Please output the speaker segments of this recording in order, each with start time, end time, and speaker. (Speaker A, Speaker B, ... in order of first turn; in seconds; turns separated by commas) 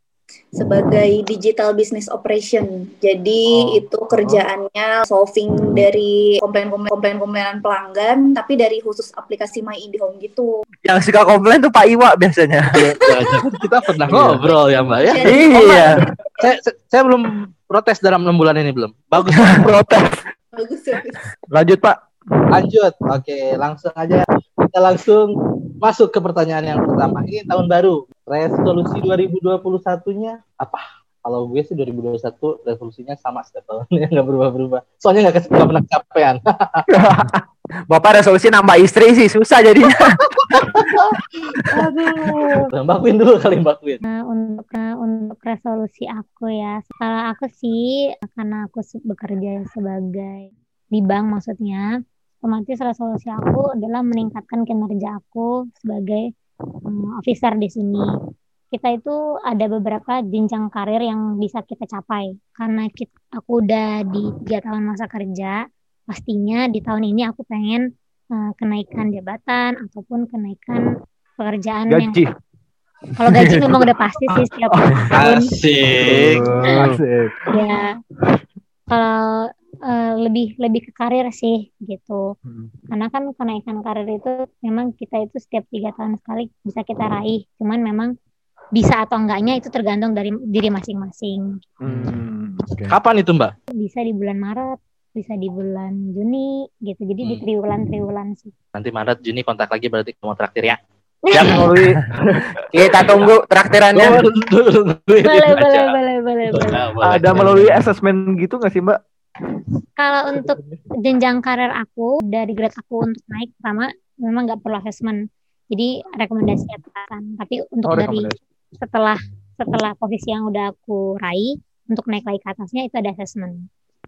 Speaker A: 0.6-10.5, Speaker B: 4.1-4.4, Speaker C: 10.8-12.8, Speaker D: 12.7-15.3, Speaker A: 13.2-13.5, Speaker A: 14.4-16.5, Speaker C: 15.2-16.1, Speaker D: 16.4-19.7, Speaker B: 19.4-20.2, Speaker A: 20.6-21.2, Speaker B: 21.5-22.4, Speaker D: 22.5-36.9, Speaker B: 36.9-37.4, Speaker C: 37.9-40.9, Speaker D: 40.7-41.2, Speaker D: 41.7-44.0, Speaker E: 44.0-51.9, Speaker E: 52.5-56.3, Speaker E: 56.9-58.2, Speaker E: 58.7-65.6, Speaker E: 66.1-67.8, Speaker E: 68.4-70.9, Speaker E: 71.4-72.2, Speaker B: 71.9-72.3, Speaker E: 73.2-75.5, Speaker B: 74.7-75.1, Speaker D: 75.1-76.5, Speaker B: 76.0-77.5, Speaker C: 76.1-77.0, Speaker E: 77.5-78.0, Speaker E: 78.9-82.2, Speaker B: 82.5-82.7, Speaker E: 82.9-88.1, Speaker E: 88.8-91.5, Speaker B: 91.8-92.8, Speaker C: 91.9-92.1, Speaker D: 92.9-93.5, Speaker E: 93.8-98.5, Speaker D: 98.8-100.8, Speaker B: 101.4-102.5, Speaker C: 102.7-104.2, Speaker D: 103.0-103.3, Speaker D: 103.9-105.9, Speaker E: 105.2-106.8, Speaker D: 106.5-107.9, Speaker B: 107.0-109.0, Speaker E: 110.0-115.2, Speaker E: 115.7-118.3, Speaker B: 117.9-118.4, Speaker E: 118.8-123.7